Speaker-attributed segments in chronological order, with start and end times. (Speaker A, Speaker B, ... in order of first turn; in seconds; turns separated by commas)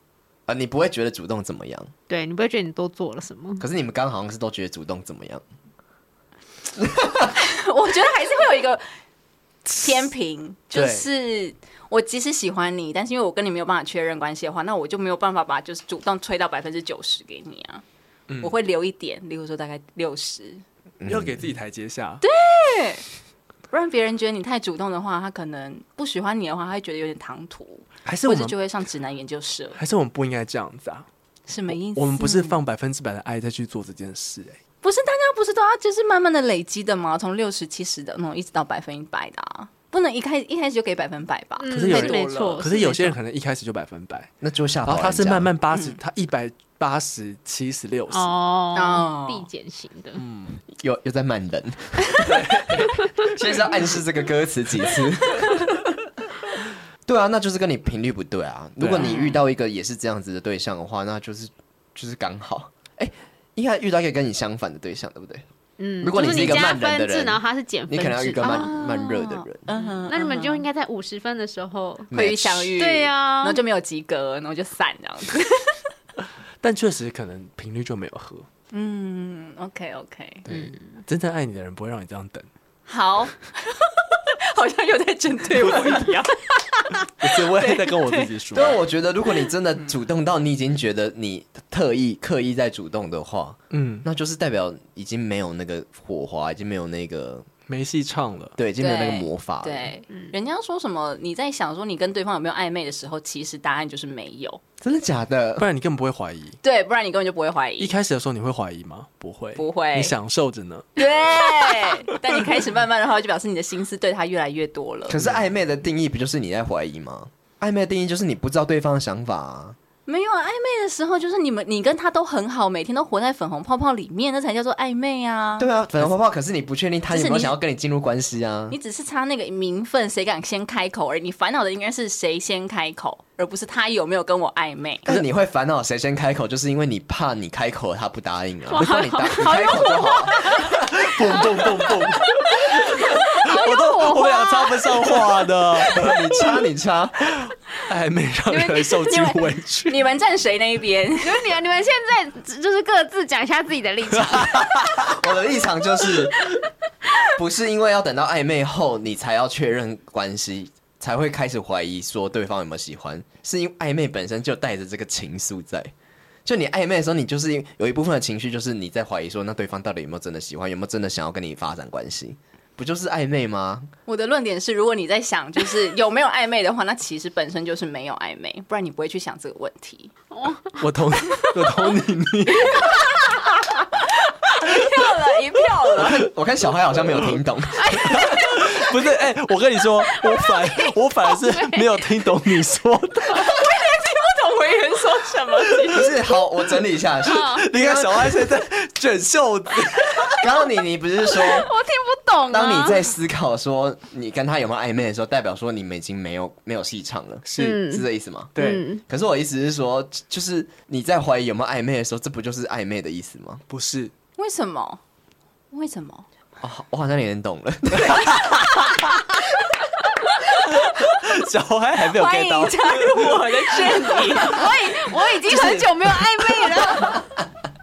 Speaker A: 0.5-1.9, Speaker B: 2.1-3.6, Speaker A: 3.6-5.4, Speaker A: 6.8-7.3, Speaker C: 7.3-8.8, Speaker C: 9.7-17.8, Speaker D: 10.7-11.1, Speaker D: 18.3-18.5, Speaker C: 18.4-20.6, Speaker A: 21.0-21.4, Speaker D: 21.1-22.2, Speaker C: 22.2-23.0, Speaker C: 23.7-29.8, Speaker D: 28.0-28.6, Speaker D: 29.8-31.1, Speaker C: 31.5-32.6, Speaker D: 31.7-34.6, Speaker C: 34.8-42.7, Speaker B: 41.6-43.1, Speaker D: 41.7-44.3, Speaker A: 44.4-45.5, Speaker D: 44.9-48.3, Speaker C: 45.7-46.0, Speaker B: 48.1-50.2, Speaker C: 48.7-49.5, Speaker D: 50.2-50.6, Speaker A: 50.7-55.9, Speaker D: 52.2-52.9, Speaker A: 57.0-65.4, Speaker D: 58.8-59.1, Speaker C: 59.0-59.3, Speaker B: 65.8-68.7, Speaker A: 66.0-69.7, Speaker C: 68.4-70.6, Speaker B: 69.8-72.1, Speaker A: 72.1-72.8, Speaker C: 72.1-75.8, Speaker B: 72.8-73.6, Speaker D: 76.6-78.5, Speaker C: 78.7-80.5, Speaker D: 80.5-82.5, Speaker C: 82.9-88.3, Speaker D: 87.2-88.8, Speaker A: 88.5-97.5, Speaker D: 93.7-94.0, Speaker D: 97.7-98.5, Speaker A: 98.6-99.9, Speaker C: 98.8-104.6, Speaker A: 104.8-105.7, Speaker D: 105.6-106.6, Speaker C: 106.6-107.9, Speaker D: 107.8-110.9, Speaker C: 109.5-110.2, Speaker C: 111.0-115.2, Speaker A: 115.1-119.8, Speaker C: 120.1-125.7, Speaker A: 125.6-128.8, Speaker C: 127.1-127.5, Speaker C: 128.7-135.0, Speaker A: 135.0-140.7, Speaker B: 138.7-140.7, Speaker D: 140.6-146.6, Speaker B: 142.7-145.1, Speaker A: 145.8-147.5, Speaker D: 147.3-150.0, Speaker C: 148.5-151.4, Speaker B: 151.2-154.9, Speaker D: 154.1-155.1, Speaker A: 155.0-156.5, Speaker A: 157.3-165.9, Speaker A: 166.4-173.9, Speaker C: 174.1-180.1, Speaker B: 180.3-180.8, Speaker D: 180.8-183.1, Speaker C: 182.6-183.3, Speaker C: 184.0-186.3, Speaker A: 186.0-188.3, Speaker D: 187.1-187.4, Speaker B: 187.8-188.7, Speaker D: 187.9-193.6, Speaker B: 190.3-191.9, Speaker C: 193.3-196.1, Speaker A: 195.9-198.5, Speaker B: 197.2-197.7, Speaker D: 197.3-200.4, Speaker A: 200.3-201.7, Speaker B: 201.3-203.0, Speaker A: 202.5-208.5, Speaker D: 207.4-207.8, Speaker B: 207.6-209.0, Speaker D: 208.5-208.8, Speaker A: 209.0-213.6, Speaker D: 213.7-214.1, Speaker C: 214.4-215.0, Speaker C: 215.7-216.2, Speaker A: 216.6-218.6, Speaker D: 218.0-219.2, Speaker D: 220.5-224.5, Speaker C: 222.0-224.7, Speaker B: 224.5-227.2, Speaker A: 225.5-225.9, Speaker D: 226.5-226.8, Speaker A: 227.0-227.4